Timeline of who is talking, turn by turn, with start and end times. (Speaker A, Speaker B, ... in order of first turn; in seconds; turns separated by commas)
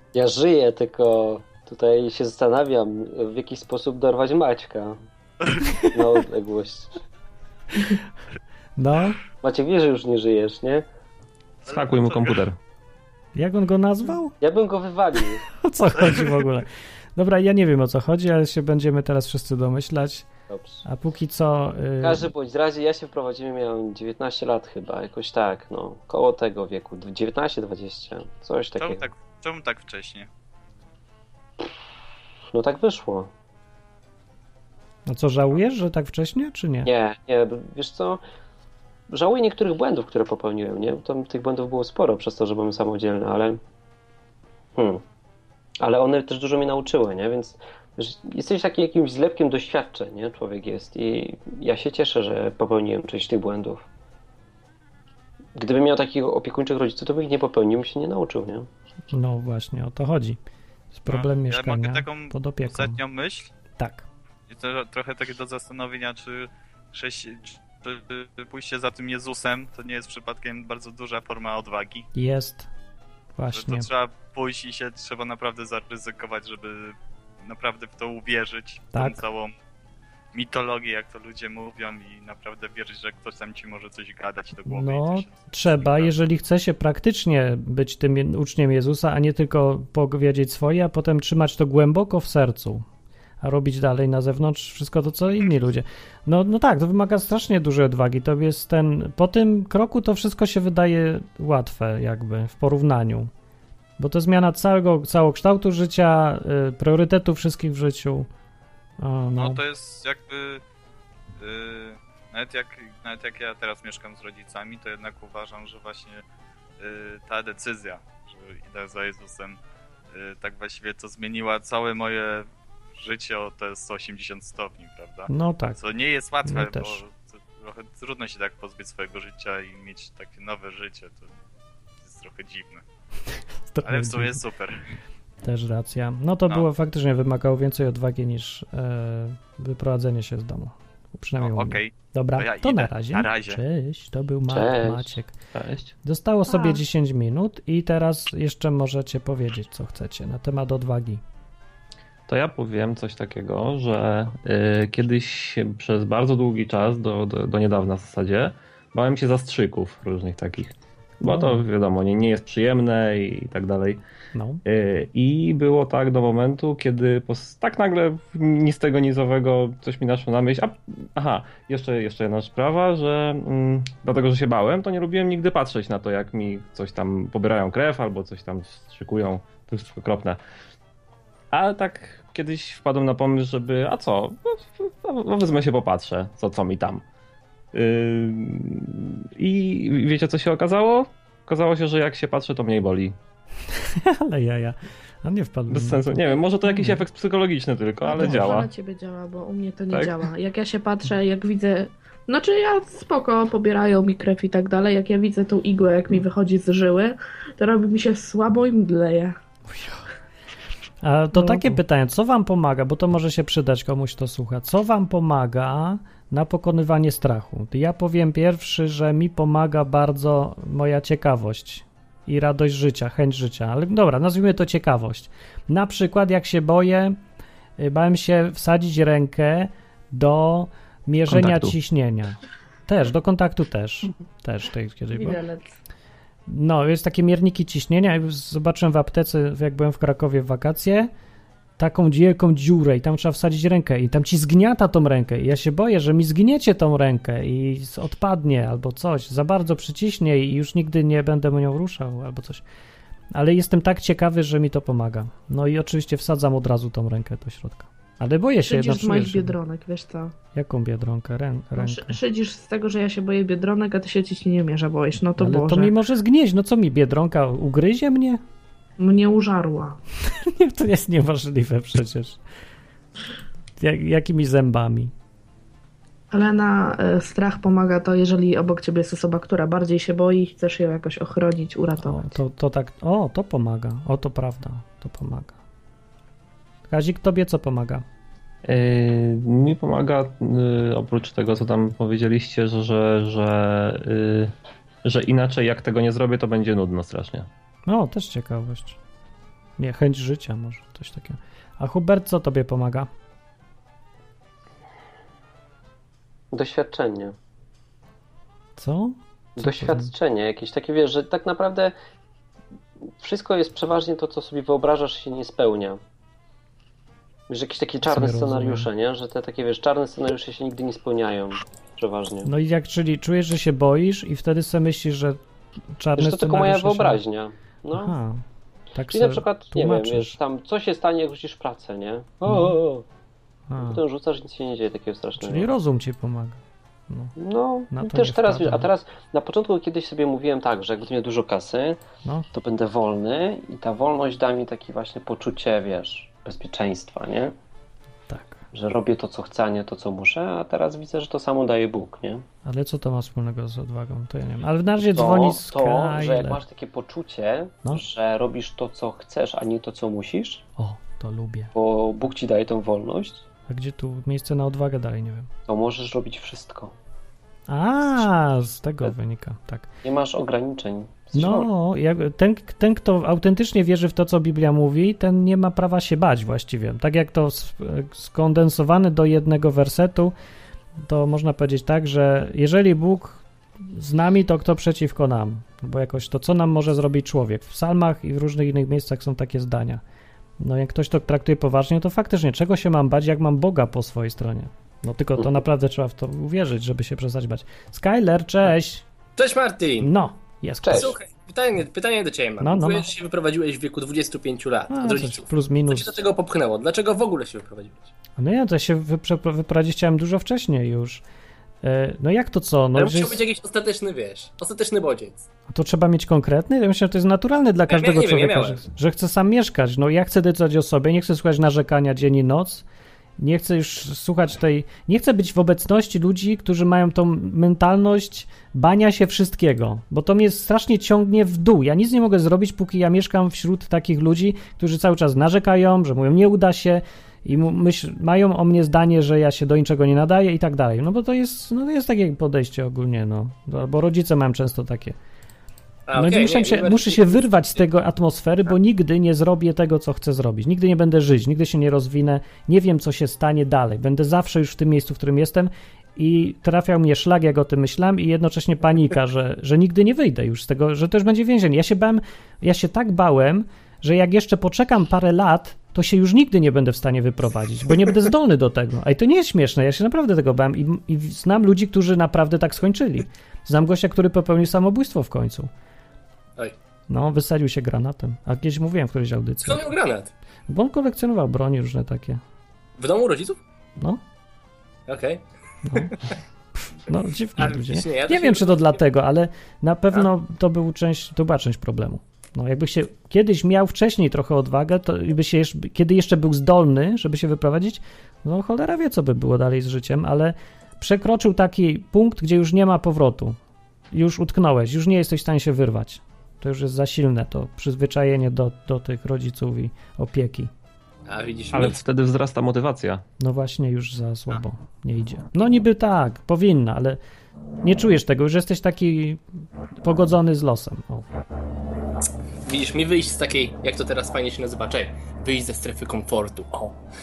Speaker A: 0.1-5.0, Speaker A: 5.9-7.0, Speaker B: 8.8-9.2, Speaker A: 9.4-10.8, Speaker C: 11.7-12.4, Speaker D: 11.7-12.6, Speaker B: 13.4-14.3, Speaker A: 14.4-15.4, Speaker B: 15.6-20.3, Speaker A: 20.5-20.8, Speaker B: 20.8-22.3, Speaker A: 22.0-29.0, Speaker C: 28.8-30.3, Speaker A: 32.5-33.3, Speaker B: 35.1-36.9, Speaker A: 36.8-38.2, Speaker A: 39.1-43.6, Speaker A: 44.8-45.0, Speaker A: 45.8-53.8, Speaker A: 55.5-58.7, Speaker B: 59.1-60.4, Speaker B: 60.9-63.0, Speaker C: 61.1-63.5, Speaker B: 63.8-64.1, Speaker C: 64.5-72.1, Speaker B: 72.1-72.7, Speaker B: 73.4-73.9, Speaker C: 73.5-79.5, Speaker B: 78.9-79.2, Speaker C: 80.3-86.1, Speaker B: 84.7-92.8, Speaker B: 93.4-103.3, Speaker B: 104.0-108.3, Speaker B: 109.0-109.6, Speaker C: 109.4-110.6, Speaker C: 111.4-116.2, Speaker C: 116.8-119.6, Speaker C: 120.1-131.3, Speaker B: 125.3-125.8, Speaker B: 126.4-127.0, Speaker C: 132.0-132.8, Speaker B: 133.7-134.4, Speaker C: 133.8-134.8, Speaker B: 135.4-145.3, Speaker C: 141.4-143.6, Speaker A: 144.5-145.2, Speaker D: 145.5-145.9, Speaker B: 146.0-151.2, Speaker E: 146.5-146.8, Speaker D: 152.3-164.0, Speaker B: 161.3-161.6, Speaker B: 164.3-164.6, Speaker D: 164.6-180.4, Speaker D: 181.5-187.0, Speaker D: 187.7-193.1, Speaker B: 193.8-197.0, Speaker D: 195.7-198.7, Speaker E: 198.1-209.4, Speaker B: 198.2-198.5, Speaker D: 199.9-200.2, Speaker B: 209.7-210.0, Speaker B: 211.0-227.2, Speaker E: 211.3-211.8, Speaker B: 227.8-235.4, Speaker D: 231.3-231.8, Speaker E: 235.1-235.7, Speaker B: 236.5-241.1, Speaker B: 241.8-252.6, Speaker B: 253.3-259.6, Speaker E: 258.6-260.3, Speaker B: 260.6-262.2, Speaker E: 261.8-265.9, Speaker B: 265.4-268.4, Speaker E: 269.0-270.0, Speaker B: 270.3-272.4, Speaker B: 273.8-275.1, Speaker E: 276.3-282.3, Speaker B: 282.0-285.6, Speaker B: 286.9-288.0, Speaker D: 288.6-294.5, Speaker D: 295.0-297.5, Speaker B: 297.9-299.0, Speaker B: 299.8-303.1, Speaker A: 306.5-307.3, Speaker B: 308.8-310.1, Speaker A: 309.6-311.9, Speaker A: 313.2-316.0, Speaker A: 317.5-322.5, Speaker B: 318.1-318.9, Speaker B: 322.4-325.4, Speaker B: 326.0-327.2, Speaker A: 326.2-328.1, Speaker B: 327.9-328.4, Speaker B: 328.9-330.4, Speaker A: 329.1-333.1, Speaker B: 332.4-332.8, Speaker B: 333.7-334.0, Speaker A: 333.8-335.7, Speaker B: 335.4-337.3, Speaker A: 337.4-342.0, Speaker B: 337.9-338.9, Speaker A: 342.5-347.5, Speaker B: 348.3-348.6, Speaker A: 348.7-352.4, Speaker B: 352.6-356.6, Speaker A: 355.0-360.6, Speaker B: 360.8-361.7, Speaker A: 361.7-363.4, Speaker B: 363.7-365.5, Speaker A: 365.7-366.9, Speaker B: 367.7-369.9, Speaker A: 370.0-371.7, Speaker B: 371.3-380.3, Speaker B: 381.0-390.0, Speaker B: 390.6-399.0, Speaker F: 399.4-400.1, Speaker B: 400.0-401.1, Speaker A: 400.8-401.1, Speaker F: 400.9-408.1, Speaker B: 402.6-403.1, Speaker B: 404.9-406.1, Speaker B: 408.4-411.2, Speaker B: 411.8-413.4, Speaker F: 412.9-415.4, Speaker B: 415.7-422.8, Speaker F: 417.9-418.8, Speaker B: 423.4-445.1, Speaker F: 446.1-447.8, Speaker B: 446.1-475.7, Speaker B: 477.1-479.9, Speaker F: 479.6-480.3, Speaker B: 480.7-482.4, Speaker F: 483.0-483.6, Speaker F: 485.1-486.1, Speaker B: 485.9-486.1, Speaker B: 486.8-503.6, Speaker F: 487.6-489.0, Speaker B: 504.1-510.7, Speaker F: 511.3-512.0, Speaker D: 511.7-513.2, Speaker B: 513.4-517.2, Speaker B: 517.8-519.4, Speaker B: 520.0-521.3, Speaker F: 522.6-526.9